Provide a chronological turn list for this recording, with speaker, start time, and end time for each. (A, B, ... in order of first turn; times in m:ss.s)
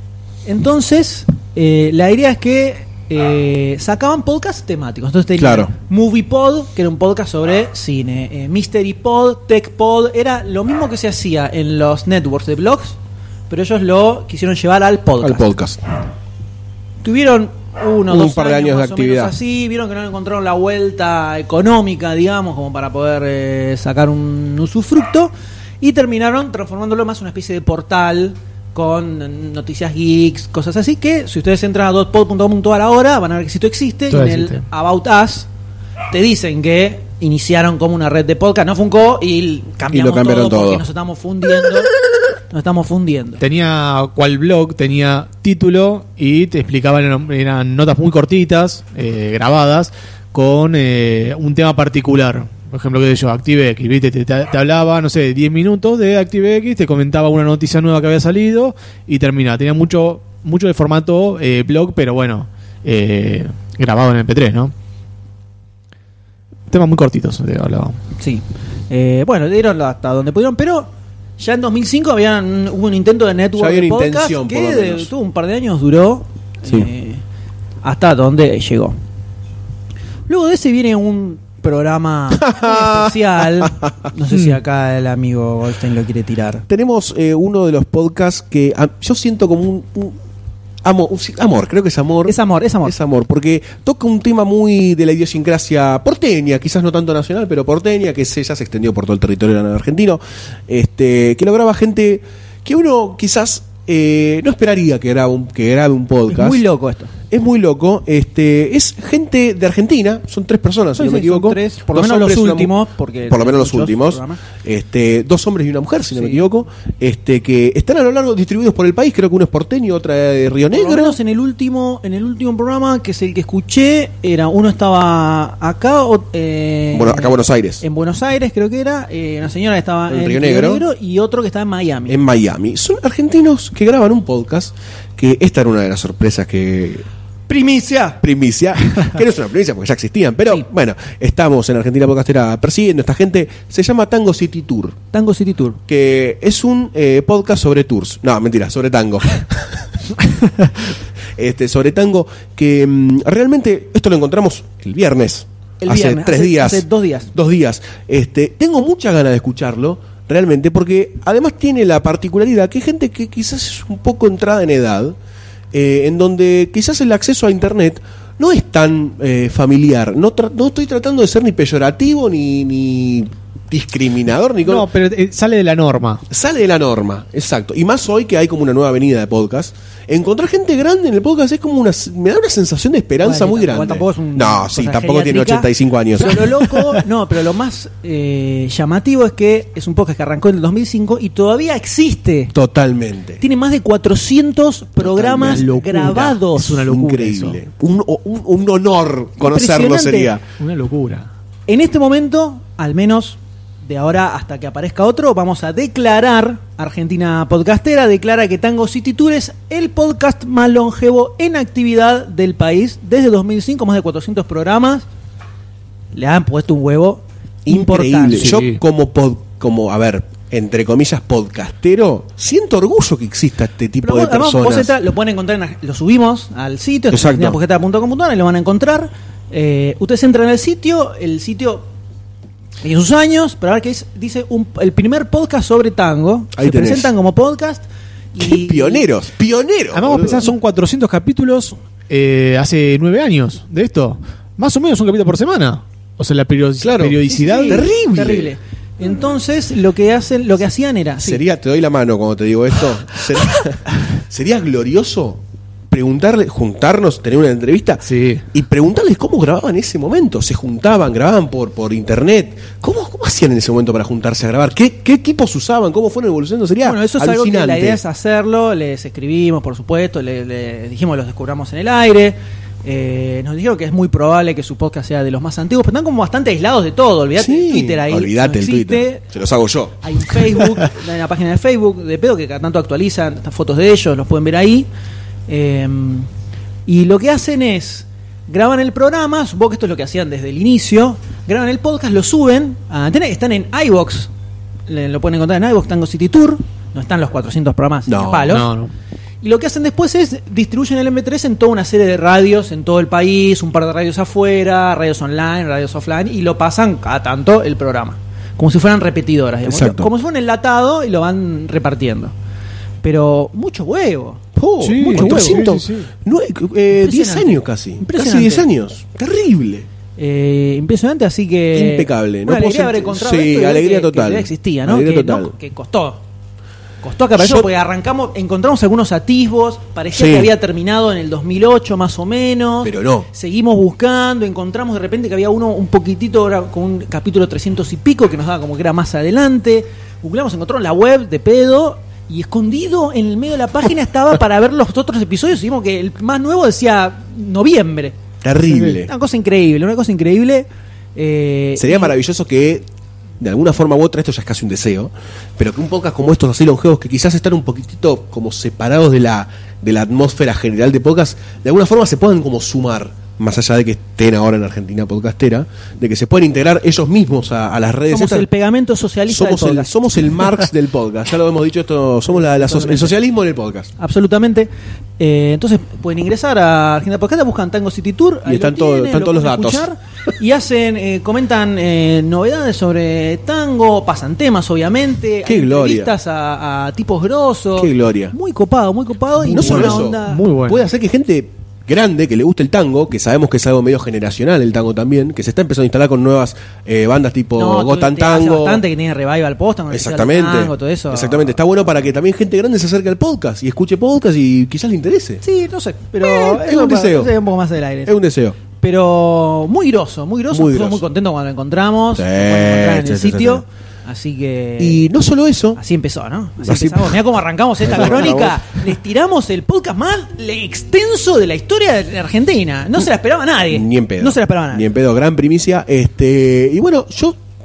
0:00.4-0:13.0 A
0:05.4-0:05.7 B
0:13.5-0:15.5 A
0:15.2-0:15.8 B
0:17.0-0:35.5 A
0:18.1-0:19.4 B
0:34.1-0:34.6 C
0:36.1-0:41.9 A
0:39.9-0:40.8 B
0:42.5-0:43.4 A
0:43.4-1:04.7 C
1:06.7-1:08.0 C
1:08.2-1:17.2 A
1:13.6-1:15.1 B
1:17.8-1:18.9 A
1:20.3-1:26.6 A
1:22.3-1:23.9 B
1:26.7-1:30.2 B
1:30.8-1:46.6 B
1:32.2-1:32.9 A
1:46.3-1:47.1 A
1:47.3-1:52.7 B
1:51.0-1:54.4 A
1:53.2-2:01.2 B
1:56.1-1:56.4 A
2:00.7-2:12.2 A
2:06.9-2:07.8 B
2:10.1-2:10.8 B
2:12.1-2:17.0 B
2:17.5-2:18.2 A
2:18.2-2:25.0 B
2:25.1-2:25.8 A
2:25.9-2:29.9 B
2:31.4-2:45.2 B
2:35.8-2:37.3 A
2:45.7-2:54.9 B
2:54.6-2:56.2 C
2:56.3-3:06.6 B
3:03.2-3:12.5 A
3:12.5-3:13.4 B
3:13.4-3:16.8 A
3:15.0-3:20.4 B
3:15.4-3:17.6 C
3:19.4-3:20.3 A
3:20.6-3:21.3 C
3:21.7-3:35.0 A
3:36.1-3:38.6 A
3:37.6-3:44.9 B
3:38.4-3:38.8 C
3:44.0-3:51.9 A
3:47.1-3:47.6 B
3:52.8-3:59.0 A
3:56.6-3:57.1 B
3:58.4-4:00.5 B
3:59.9-4:07.9 C
4:06.8-4:08.5 B
4:07.2-4:11.4 A
4:11.2-4:28.0 B
4:18.0-4:18.4 C
4:26.8-4:39.2 A
4:37.4-4:40.6 B
4:40.0-4:44.9 A
4:45.5-4:46.3 A
4:46.8-4:54.3 A
4:54.9-4:58.7 A
4:58.1-4:58.6 B
4:58.5-4:58.9 C
4:59.4-5:12.3 A
5:09.7-5:10.1 B
5:13.0-5:14.4 A
5:14.6-5:19.9 B
5:14.8-5:16.1 C
5:15.1-5:15.6 A
5:16.9-5:18.7 A
5:20.2-5:26.2 A
5:21.7-5:25.5 B
5:27.0-5:48.2 A
5:27.4-5:27.7 B
5:30.1-5:30.5 B
5:32.8-5:33.3 B
5:48.4-5:49.1 B
5:48.7-5:49.0 C
5:49.0-5:52.1 A
5:51.8-5:52.8 B
5:53.4-6:08.5 B
6:08.1-6:10.0 A
6:09.3-6:13.9 B
6:12.3-6:13.2 A
6:14.0-6:30.4 A
6:18.4-6:19.8 B
6:25.4-6:26.1 B
6:27.8-6:28.3 B
6:29.4-6:30.9 C
6:29.5-6:38.8 B
6:37.6-6:41.6 A
6:39.9-6:45.4 B
6:45.4-6:48.2 A
6:46.2-6:47.3 B
6:48.0-6:48.6 B
6:48.7-6:55.0 A
6:50.5-6:51.0 B
6:52.1-6:53.6 B
6:54.8-6:55.8 B
6:55.7-7:04.9 A
6:56.6-6:57.2 B
6:57.8-6:58.8 B
7:03.7-7:07.4 B